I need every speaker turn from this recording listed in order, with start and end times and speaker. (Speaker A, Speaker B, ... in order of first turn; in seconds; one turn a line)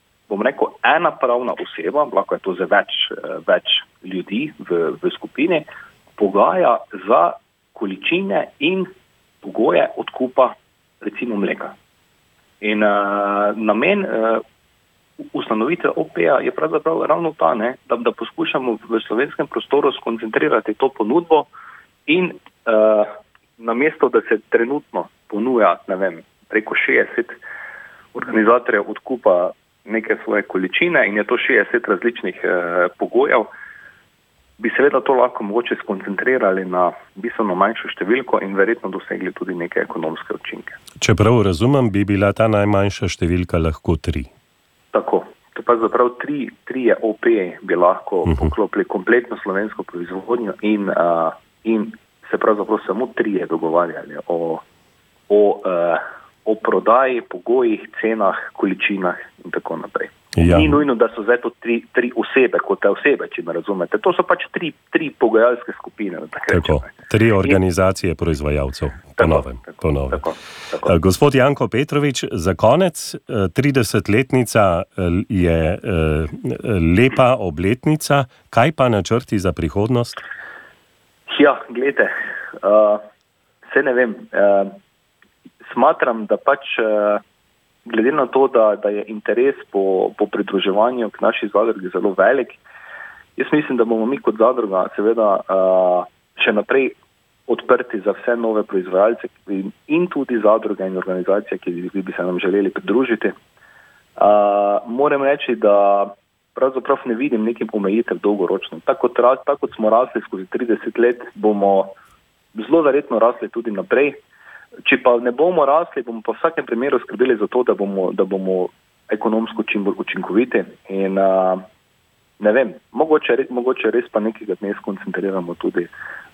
Speaker A: 0.3-5.7
Speaker A: 6.2-8.9
Speaker A: 9.4-11.7
Speaker A: 12.6-14.4
Speaker A: 15.2-21.5
Speaker A: 22.1-27.4
Speaker A: 28.1-33.5
Speaker A: 34.6-40.8
Speaker B: 41.0-44.3
Speaker A: 44.9-54.6
Speaker A: 55.3-67.6
Speaker B: 60.4-60.8
Speaker B: 66.5-70.2
Speaker A: 69.2-70.9
Speaker B: 70.8-80.2
Speaker A: 81.3-83.0
Speaker A: 83.6-84.8
Speaker A: 85.6-87.2
Speaker A: 87.8-92.6
Speaker A: 93.3-96.9
Speaker A: 97.5-103.3
Speaker A: 104.2-112.0
Speaker A: 112.5-114.2
Speaker A: 114.8-121.6
Speaker A: 122.4-125.9